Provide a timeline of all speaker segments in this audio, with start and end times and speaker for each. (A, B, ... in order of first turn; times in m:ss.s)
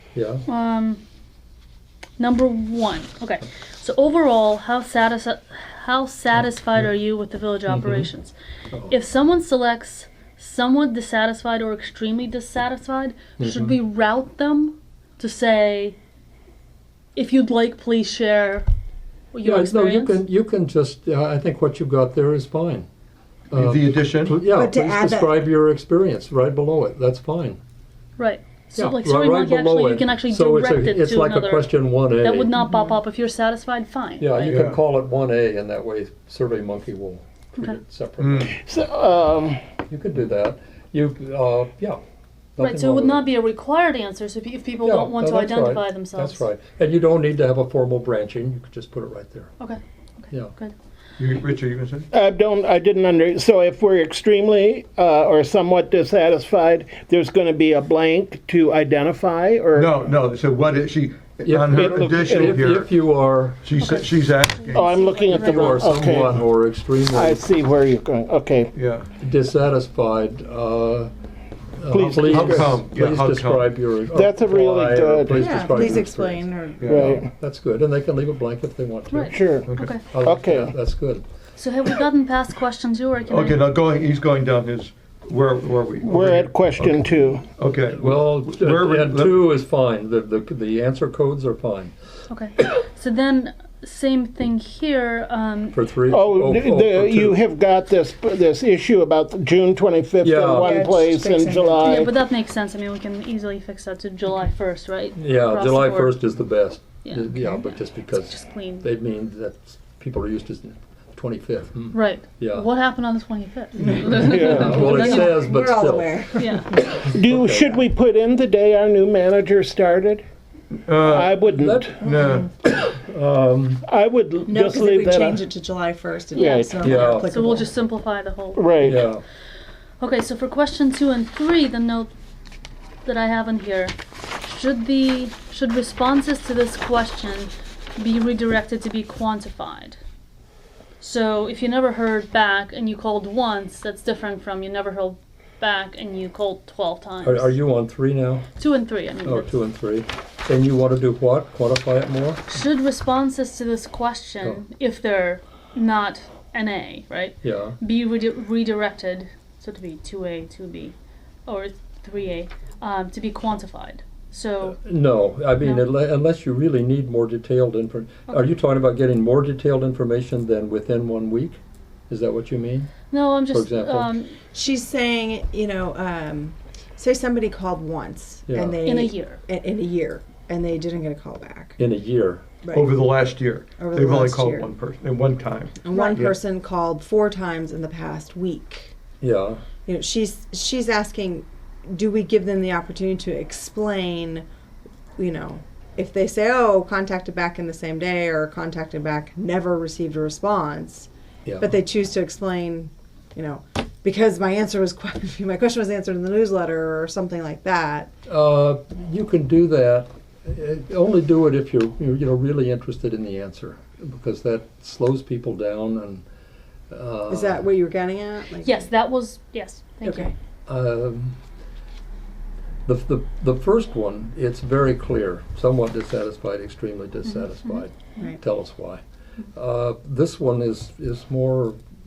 0:00.2-0:00.4 A
0:00.5-0:01.0 B
0:02.2-0:08.3 B
0:06.4-0:06.9 A
0:07.7-0:08.1 A
0:08.9-0:16.0 B
0:13.4-0:13.8 A
0:17.2-0:18.7 B
0:19.3-0:20.2 B
0:19.4-0:22.9 A
0:23.5-0:27.6 A
0:23.5-0:24.4 C
0:24.4-0:25.4 D
0:28.2-0:34.6 B
0:28.8-0:32.5 A
0:32.6-0:33.0 D
0:34.2-0:38.5 A
0:34.4-0:34.8 C
0:38.2-0:38.6 C
0:38.5-0:39.6 E
0:39.9-0:42.0 A
0:42.6-0:43.3 A
0:42.6-0:46.4 B
0:44.8-0:49.5 A
0:49.6-0:50.7 B
0:51.2-0:52.1 C
0:52.1-1:00.0 E
0:59.7-1:02.9 C
1:01.4-1:03.7 A
1:01.7-1:02.8 E
1:03.6-1:05.7 C
1:03.8-1:05.9 B
1:04.7-1:06.5 E
1:05.4-1:07.5 A
1:07.1-1:08.7 E
1:08.7-1:09.1 C
1:09.2-1:11.1 A
1:11.8-1:19.4 A
1:11.9-1:12.8 E
1:11.9-1:13.7 C
1:14.1-1:16.0 E
1:15.4-1:17.0 D
1:16.8-1:17.2 C
1:16.8-1:17.3 E
1:19.1-1:20.0 B
1:19.3-1:20.7 E
1:19.6-1:20.0 C
1:20.1-1:21.2 A
1:21.6-1:23.6 B
1:23.3-1:29.4 C
1:26.0-1:27.5 E
1:27.9-1:31.9 A
1:32.3-1:35.8 B
1:35.7-1:37.4 A
1:36.1-1:42.1 E
1:40.2-1:40.8 A
1:40.6-1:42.0 D
1:41.8-1:46.3 B
1:45.2-1:52.7 A
1:47.0-1:48.9 B
1:51.9-1:55.5 B
1:53.8-1:57.0 D
1:54.2-1:55.0 E
1:54.4-1:56.2 A
1:56.4-1:56.7 B
1:57.0-2:00.2 E
1:57.1-1:57.7 A
2:00.9-2:01.5 C
2:01.0-2:02.1 E
2:01.5-2:01.9 A
2:02.0-2:02.5 C
2:02.0-2:02.5 D
2:02.6-2:03.8 A
2:03.8-2:05.4 E
2:04.5-2:07.7 D
2:06.3-2:06.8 E
2:06.4-2:09.0 B
2:06.8-2:07.3 A
2:08.6-2:09.0 E
2:08.8-2:09.2 A
2:10.0-2:12.1 B
2:13.0-2:20.0 B
2:21.0-2:27.6 B
2:27.2-2:28.5 A
2:28.6-2:29.5 B
2:29.2-2:32.5 A
2:32.5-2:41.0 B
2:37.4-2:37.8 A
2:41.5-2:44.8 B
2:44.7-2:52.9 A
2:53.1-2:54.4 B
2:53.5-2:54.1 A
2:54.5-3:01.8 D
2:58.5-2:58.8 A
2:58.8-2:59.4 B
3:01.8-3:02.4 A
3:02.6-3:03.1 D
3:02.7-3:06.4 C
3:03.8-3:04.7 D
3:05.8-3:09.0 D
3:09.2-3:09.6 A
3:09.9-3:14.4 D
3:15.2-3:28.1 D
3:28.3-3:36.2 A
3:36.9-3:37.6 A
3:37.3-3:38.9 D
3:38.6-3:40.3 B
3:40.0-3:40.3 D
3:40.7-3:41.4 A
3:42.9-3:49.0 A
3:47.2-3:47.8 B
3:49.5-3:51.8 A